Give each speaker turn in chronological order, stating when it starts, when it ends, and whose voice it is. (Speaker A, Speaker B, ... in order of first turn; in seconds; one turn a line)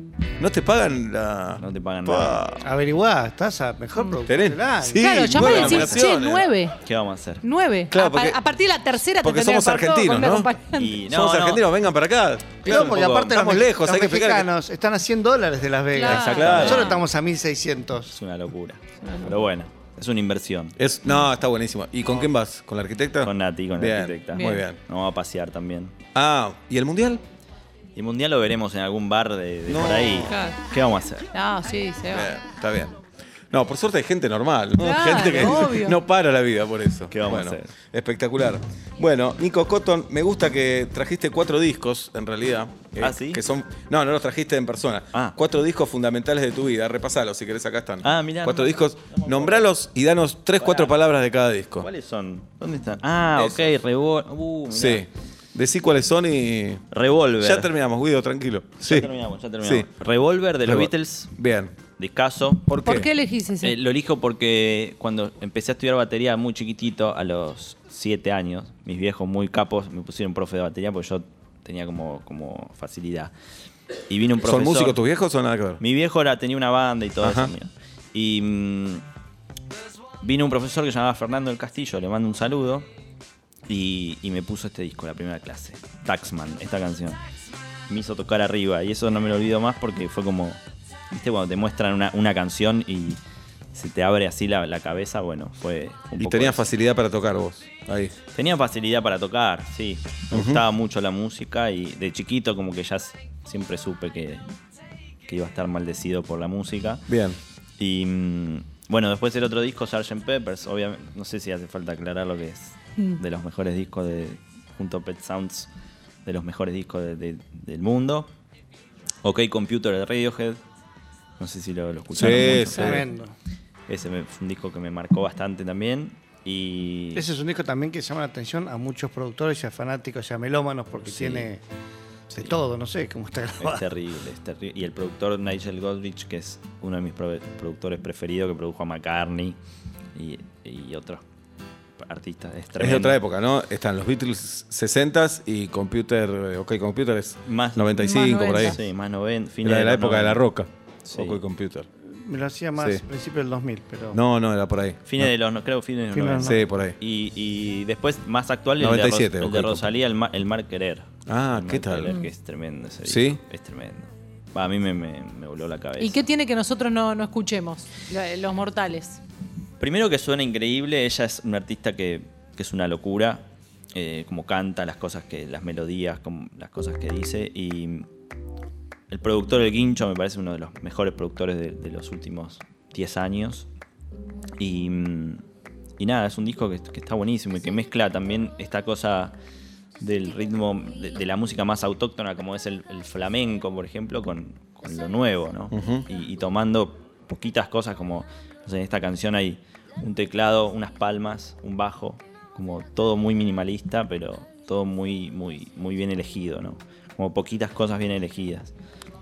Speaker A: 0.4-2.7
Speaker B: 1.6-2.4
Speaker C: 2.6-5.5
Speaker D: 3.9-4.2
Speaker A: 4.2-6.5
Speaker D: 4.9-6.8
Speaker B: 5.4-6.0
Speaker B: 6.8-7.4
Speaker D: 7.4-11.0
Speaker A: 7.9-8.4
Speaker A: 9.2-14.5
Speaker B: 10.7-11.6
Speaker B: 12.6-13.4
Speaker C: 12.6-18.1
Speaker D: 15.9-17.0
Speaker A: 16.1-16.9
Speaker B: 16.1-17.0
Speaker B: 18.1-20.8
Speaker D: 19.0-19.3
Speaker A: 20.8-24.8
Speaker B: 23.2-25.9
Speaker D: 24.3-24.6
Speaker A: 26.1-27.2
Speaker B: 27.9-31.3
Speaker A: 29.7-30.4
Speaker D: 30.2-30.6
Speaker D: 31.3-32.3
Speaker A: 32.1-33.0
Speaker A: 33.5-51.9
Speaker D: 34.8-36.0
Speaker B: 37.1-37.7
Speaker B: 43.0-43.4
Speaker B: 48.0-49.7
Speaker B: 50.6-51.0
Speaker B: 51.8-55.1
Speaker A: 53.4-53.7
Speaker A: 54.7-56.8
Speaker B: 56.9-57.7
Speaker A: 57.4-59.9
Speaker B: 58.8-61.3
Speaker A: 60.6-61.7
Speaker B: 62.0-62.7
Speaker A: 62.7-63.1
Speaker D: 62.8-63.8
Speaker B: 63.6-73.3
Speaker B: 74.1-75.0
Speaker A: 74.4-75.8
Speaker B: 75.8-79.0
Speaker A: 77.2-77.5
Speaker B: 80.2-82.9
Speaker B: 83.7-87.2
Speaker B: 87.9-93.2
Speaker B: 93.7-96.7
Speaker A: 96.2-98.1
Speaker B: 98.3-104.4
Speaker A: 100.3-100.6
Speaker B: 105.3-107.1
Speaker A: 107.1-107.4
Speaker B: 107.8-115.7
Speaker B: 116.2-118.3
Speaker B: 119.2-120.6
Speaker B: 121.4-123.0
Speaker A: 122.1-123.1
Speaker C: 122.4-123.3
Speaker B: 123.9-127.2
Speaker C: 127.1-131.6
Speaker B: 131.0-131.5
Speaker C: 132.3-133.9
Speaker B: 133.6-139.6
Speaker B: 140.1-141.2
Speaker B: 142.0-143.2
Speaker A: 142.8-148.8
Speaker B: 147.4-150.4
Speaker D: 148.0-148.8
Speaker A: 149.6-151.9
Speaker B: 151.0-151.4
Speaker C: 152.0-154.2
Speaker A: 152.8-153.0
Speaker A: 154.1-155.3
Speaker B: 155.1-166.2
Speaker C: 156.1-156.6
Speaker A: 156.4-157.0
Speaker A: 158.8-159.9
Speaker A: 161.3-162.2
Speaker A: 163.0-163.4
Speaker D: 166.0-169.2
Speaker B: 169.8-178.1
Speaker B: 179.1-183.7
Speaker B: 184.6-185.4
Speaker B: 186.0-189.3
Speaker B: 190.0-208.7
Speaker A: 195.7-196.1